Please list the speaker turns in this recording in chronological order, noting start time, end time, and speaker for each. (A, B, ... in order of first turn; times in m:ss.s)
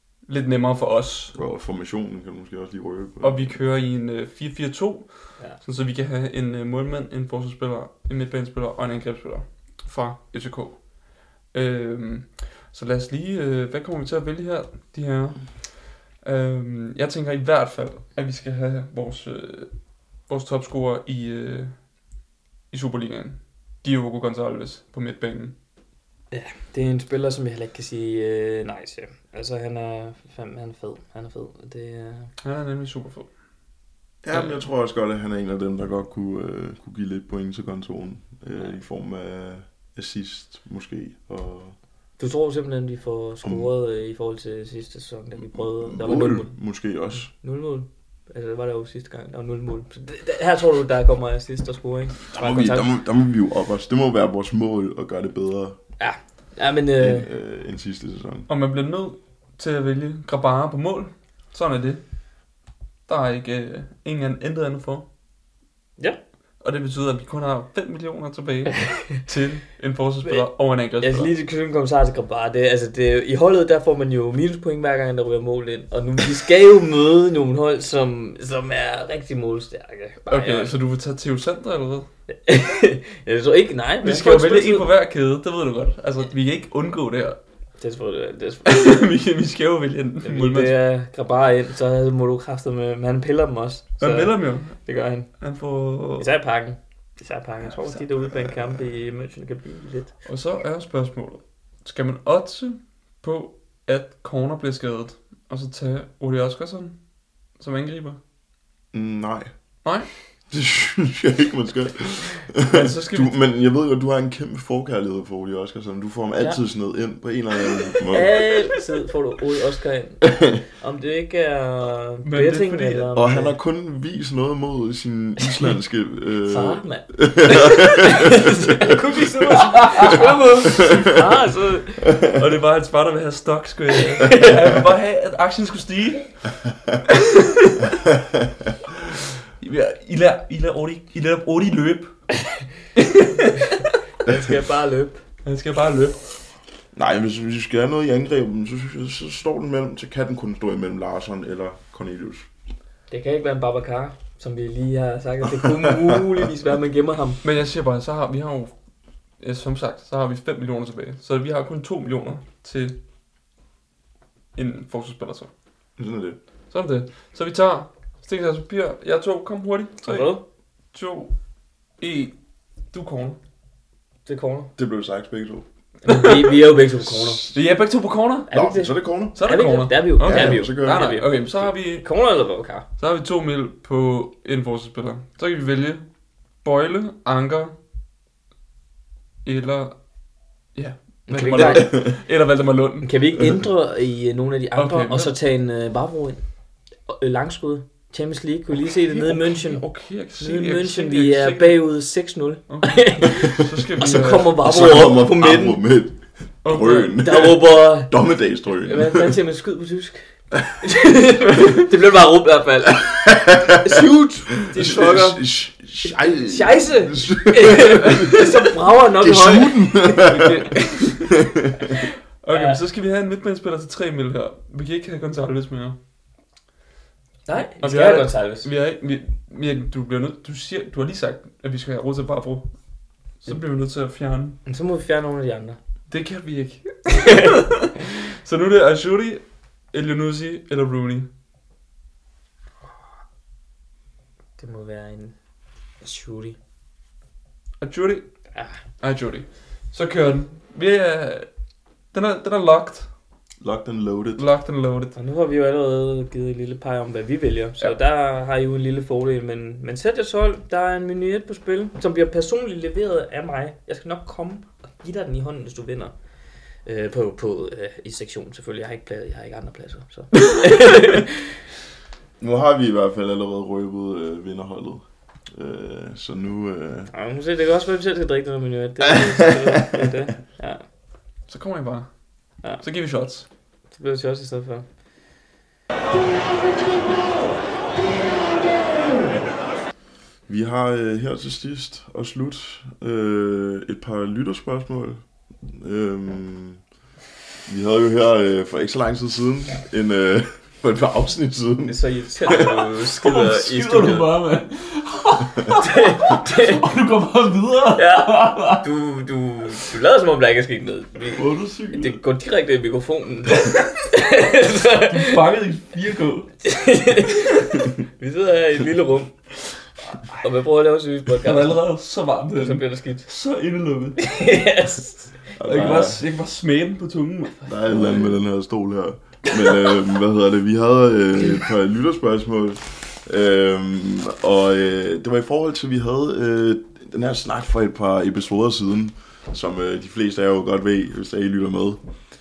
0:00.2-0:01.3 A
0:01.3-0:03.6 B
0:03.2-0:10.9 A
0:11.5-0:19.7 A
0:20.3-0:21.8 A
0:22.7-0:25.5 A
0:26.3-0:32.3 C
0:32.4-0:33.3 A
0:34.2-0:41.7 B
0:34.3-0:34.6 A
0:42.2-0:46.5 C
0:45.5-0:47.3 B
0:47.3-0:52.9 C
0:52.3-0:55.8 B
0:56.0-0:57.3 C
0:57.0-0:58.5 B
0:58.5-1:02.0 A
1:03.1-1:05.1 A
1:06.6-1:11.3 A
1:11.0-1:20.7 C
1:20.3-1:22.1 A
1:22.3-1:24.9 C
1:24.0-1:27.4 A
1:27.8-1:29.0 C
1:28.6-1:30.7 A
1:30.2-1:35.3 C
1:34.0-1:34.8 A
1:35.4-1:36.3 A
1:36.2-1:40.1 C
1:38.4-1:38.8 B
1:40.2-1:47.0 A
1:47.6-1:48.2 A
1:48.9-1:49.5 B
1:49.8-1:50.1 A
1:50.5-1:58.5 B
1:52.6-1:53.4 A
1:58.1-2:03.5 C
2:02.2-2:03.1 A
2:03.1-2:08.9 B
2:06.4-2:12.2 C
2:12.2-2:16.5 A
2:14.0-2:14.6 C
2:17.1-2:17.9 A
2:19.6-2:22.1 A
2:23.0-2:23.8 A
2:24.2-2:25.2 C
2:25.4-2:26.2 A
2:26.9-2:32.5 B
2:33.1-2:37.4 C
2:35.8-2:36.2 B
2:37.4-2:38.7 A
2:39.4-2:43.0 A
2:44.5-2:45.5 A
2:46.0-2:46.4 B
2:46.7-2:50.4 A
2:50.0-2:50.4 C
2:50.9-2:51.3 A
2:52.0-2:52.3 A
2:52.9-2:53.4 A
2:54.2-2:54.7 C
2:54.8-2:55.6 B
2:56.0-2:57.4 C
2:56.1-2:56.5 A
2:57.0-2:57.6 B
2:57.5-2:58.5 A
2:58.5-3:02.8 C
2:58.5-2:59.4 B
2:59.4-3:02.1 A
3:00.2-3:01.1 B
3:03.0-3:06.1 A
3:06.6-3:07.7 A
3:09.4-3:10.0 A
3:10.7-3:13.1 A
3:11.3-3:12.2 C
3:13.0-3:16.4 C
3:14.8-3:15.3 A
3:17.1-3:19.8 C
3:19.0-3:21.8 A
3:20.4-3:25.8 C
3:22.7-3:24.7 A
3:24.6-3:29.4 B
3:26.6-3:27.2 A
3:27.2-3:28.1 C
3:28.8-3:35.4 C
3:33.2-3:34.0 B
3:34.6-3:40.7 B
3:36.4-3:41.3 C
3:41.3-3:42.0 B
3:41.8-3:42.8 C
3:42.4-3:46.0 A
3:47.5-3:48.7 C
3:47.8-3:52.7 A
3:53.4-3:54.6 A
3:54.6-3:55.8 C
3:56.1-4:01.3 A
3:57.2-3:57.5 C
4:04.6-4:05.3 C
4:06.0-4:06.6 C
4:07.8-4:08.3 A
4:09.0-4:11.5 A
4:12.1-4:13.1 A
4:13.6-4:14.4 B
4:14.4-4:15.1 A
4:15.2-4:26.1 C
4:26.8-4:31.5 C
4:32.4-4:37.1 B
4:37.1-4:40.8 C
4:39.1-4:40.0 B
4:41.5-4:42.1 A
4:42.7-4:43.5 A
4:43.9-4:44.8 C
4:50.5-4:56.8 B
4:57.7-5:02.0 B
5:01.8-5:04.4 C
5:02.4-5:08.8 A
5:05.7-5:06.9 C
5:07.9-5:15.4 C
5:11.4-5:12.0 A
5:11.4-5:12.0 B
5:15.1-5:16.5 A
5:16.6-5:19.3 C
5:20.3-5:21.8 C
5:21.4-5:24.2 A
5:22.5-5:23.3 C
5:24.2-5:25.5 C
5:25.6-5:26.2 B
5:25.6-5:27.6 A
5:27.6-5:42.0 B